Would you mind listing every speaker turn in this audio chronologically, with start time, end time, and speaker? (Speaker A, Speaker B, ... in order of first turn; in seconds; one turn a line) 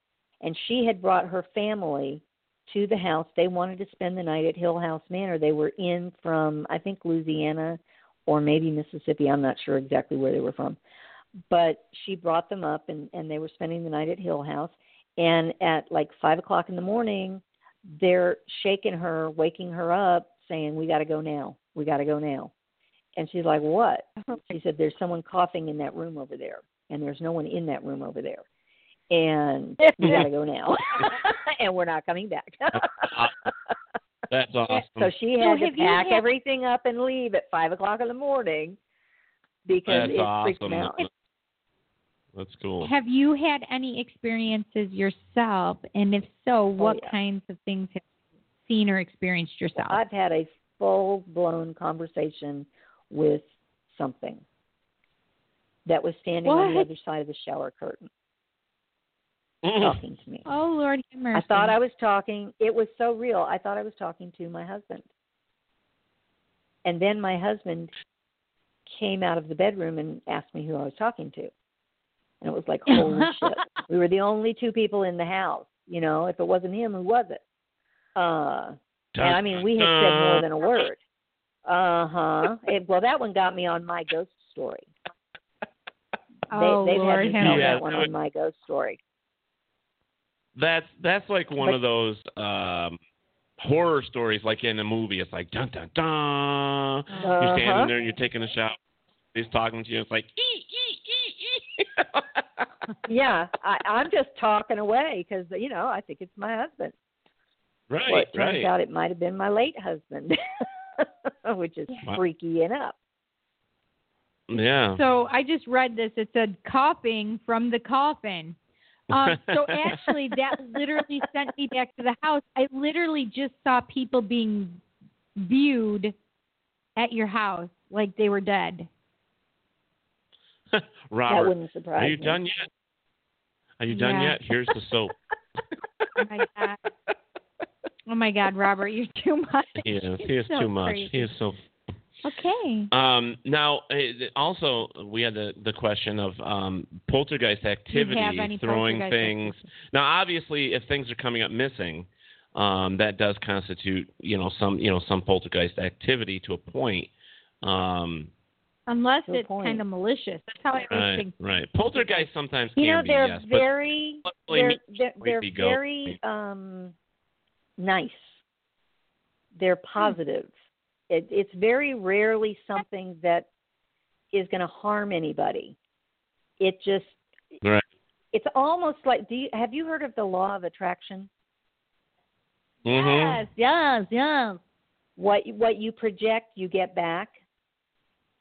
Speaker A: 0.4-10.8
Speaker A: 11.5-22.5
Speaker A: 23.1-28.4
Speaker A: 29.1-33.5
Speaker B: 29.8-30.2
Speaker C: 33.1-33.3
Speaker C: 34.3-35.1
Speaker A: 35.0-38.8
Speaker B: 35.4-36.2
Speaker A: 39.6-41.1
Speaker C: 39.9-41.1
Speaker C: 42.3-42.9
Speaker B: 42.8-48.0
Speaker A: 46.8-47.1
Speaker B: 48.7-50.0
Speaker A: 49.8-54.4
Speaker A: 55.9-58.1
Speaker B: 56.4-56.9
Speaker C: 59.6-60.0
Speaker A: 59.8-60.5
Speaker B: 60.5-61.7
Speaker A: 61.3-65.1
Speaker A: 66.8-67.9
Speaker A: 68.9-71.5
Speaker A: 72.4-77.4
Speaker B: 72.9-73.5
Speaker A: 78.1-81.0
Speaker C: 79.1-80.5
Speaker A: 81.6-84.9
Speaker B: 86.5-87.7
Speaker A: 86.5-89.0
Speaker C: 87.4-88.1
Speaker C: 90.5-93.0
Speaker C: 93.6-98.8
Speaker B: 97.1-97.4
Speaker A: 97.2-97.9
Speaker C: 99.3-102.6
Speaker A: 103.1-106.9
Speaker C: 107.9-108.7
Speaker A: 108.0-113.0
Speaker C: 114.5-115.0
Speaker B: 114.9-118.6
Speaker B: 119.1-124.8
Speaker C: 119.1-120.0
Speaker B: 125.4-126.1
Speaker B: 127.0-128.9
Speaker C: 130.7-132.7
Speaker A: 131.3-132.4
Speaker C: 133.8-135.1
Speaker B: 133.9-134.3
Speaker B: 136.2-136.8
Speaker B: 138.1-141.2
Speaker C: 139.8-141.6
Speaker B: 142.2-142.9
Speaker C: 142.9-157.1
Speaker B: 147.9-149.7
Speaker C: 157.6-158.3
Speaker B: 158.9-161.3
Speaker A: 159.2-159.8
Speaker C: 160.9-163.7
Speaker B: 161.9-162.2
Speaker A: 162.8-166.9
Speaker C: 164.2-166.2
Speaker A: 167.8-168.3
Speaker A: 169.5-170.5
Speaker A: 171.1-173.5
Speaker A: 174.3-175.8
Speaker A: 176.6-177.2
Speaker A: 178.3-181.3
Speaker C: 182.8-183.4
Speaker B: 182.8-184.6
Speaker A: 185.2-187.4